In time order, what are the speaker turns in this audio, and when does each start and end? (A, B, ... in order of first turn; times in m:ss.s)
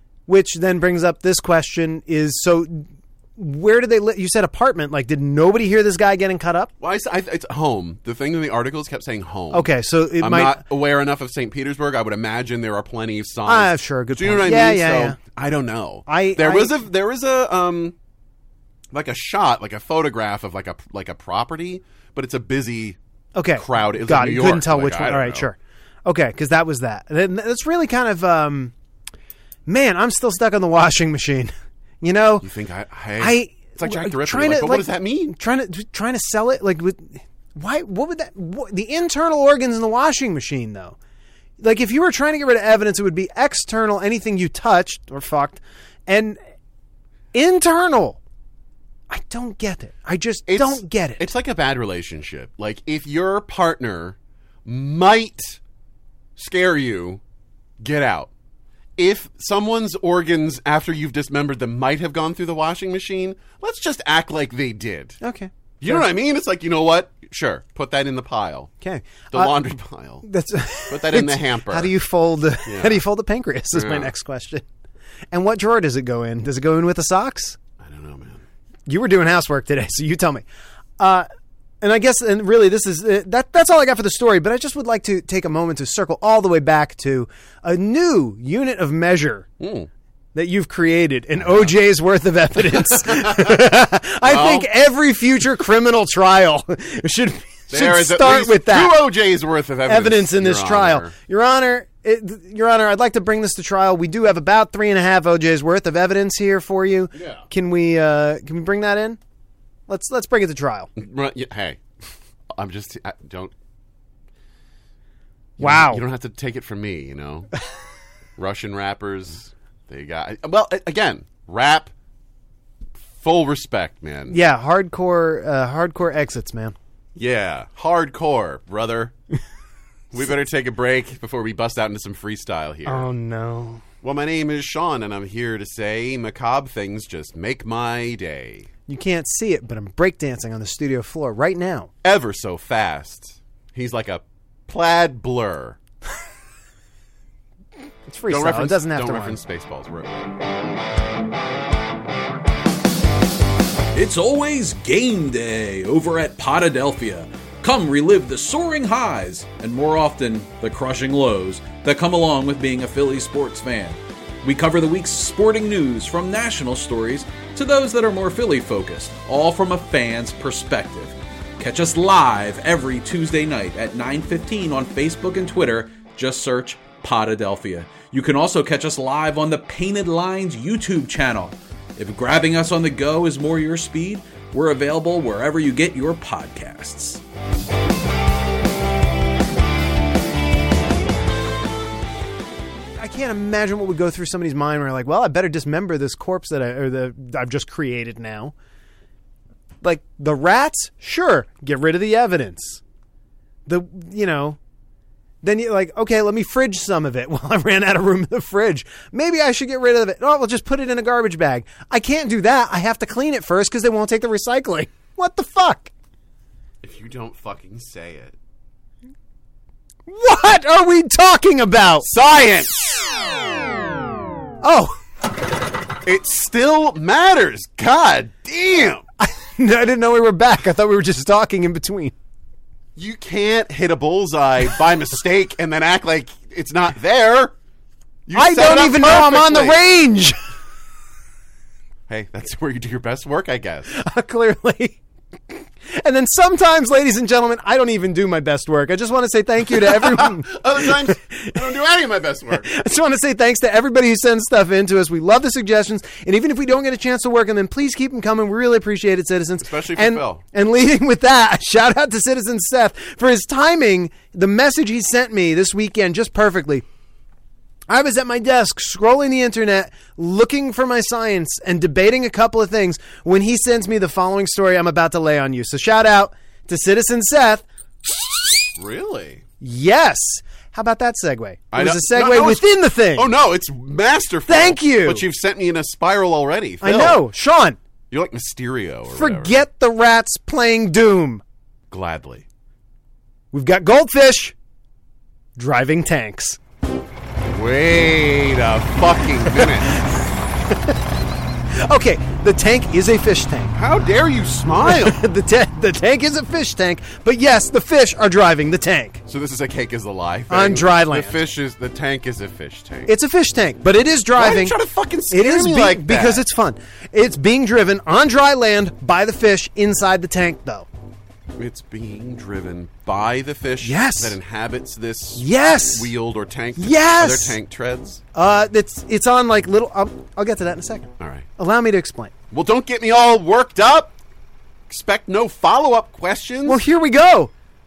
0:00.3-0:06.7 A
0:06.8-0:17.9 B
0:09.5-0:10.6 A
0:13.4-0:15.2 A
0:16.1-0:16.8 A
0:18.9-0:23.0 B
0:23.3-0:28.7 A
0:23.5-0:25.5 B
0:29.7-0:32.5 A
0:32.4-0:35.3 B
0:33.2-0:41.0 A
0:41.6-0:46.4 A
0:47.3-0:48.2 A
0:49.1-0:51.2 A
0:50.5-0:55.6 B
0:56.4-0:57.2 B
0:57.8-0:58.3 B
0:59.0-1:05.2 B
1:05.2-1:06.0 A
1:05.8-1:08.7 B
1:08.8-1:09.5 A
1:09.3-1:10.2 B
1:10.2-1:14.6 A
1:10.9-1:11.9 B
1:12.6-1:13.0 B
1:13.7-1:14.1 B
1:15.3-1:17.6 A
1:17.8-1:18.4 B
1:18.9-1:20.4 A
1:21.0-1:21.3 A
1:21.8-1:29.5 A
1:29.6-1:29.9 B
1:30.3-1:39.0 A
1:31.4-1:31.7 B
1:32.7-1:33.7 B
1:34.2-1:34.7 B
1:37.7-1:41.1 B
1:39.8-1:49.2 A
1:47.1-1:47.4 B
1:49.9-1:50.9 A
1:51.0-1:51.8 B
1:52.5-1:53.5 B
1:55.6-1:56.0 A
1:55.6-1:57.5 B
1:58.4-2:01.9 B
2:03.1-2:04.4 B
2:04.3-2:06.8 A
2:07.2-2:09.1 B
2:10.1-2:13.1 B
2:12.8-2:13.8 A
2:14.0-2:18.7 B
2:18.9-2:21.9 A
2:22.0-2:25.8 B
2:28.1-2:29.4 A
2:28.3-2:30.3 B
2:33.9-3:07.2 C
3:13.0-3:18.5 A
3:19.8-3:22.8 A
3:23.6-3:24.6 A
3:25.4-3:35.9 A
3:36.8-3:38.3 B
3:40.1-3:42.1 A
3:42.0-3:43.1 B
3:44.6-3:45.0 A
3:46.0-3:49.0 B
3:49.2-3:52.1 A
3:53.0-3:57.5 B
3:58.3-3:59.8 B
3:58.3-4:00.4 A
4:02.1-4:03.9 B
4:03.9-4:05.0 A
4:05.5-4:11.6 A
4:09.7-4:12.7 B
4:12.5-4:26.8 A
4:19.6-4:20.4 B
4:27.9-4:37.6 A
4:38.8-4:39.4 B
4:39.6-4:43.3 A
4:41.7-4:47.2 B
4:44.5-4:45.2 A
4:46.8-4:47.8 A
4:48.1-4:49.6 B
4:49.1-4:51.4 A
4:51.9-4:52.4 B
4:53.5-4:54.5 A
4:55.6-4:56.6 A
4:57.5-5:00.0 B
4:59.5-5:00.9 A
5:01.7-5:03.7 A
5:03.7-5:05.2 B
5:04.8-5:09.2 A
5:09.3-5:13.1 B
5:10.5-5:11.4 A
5:13.1-5:14.8 A
5:14.4-5:16.4 B
5:15.3-5:20.9 A
5:21.6-5:28.2 B
5:23.8-5:24.4 A
5:25.4-5:26.1 A
5:26.8-5:27.6 A
5:28.3-5:32.3 A
5:31.2-5:31.5 B
5:32.5-5:34.1 B
5:34.9-5:36.8 B
5:36.6-5:37.5 A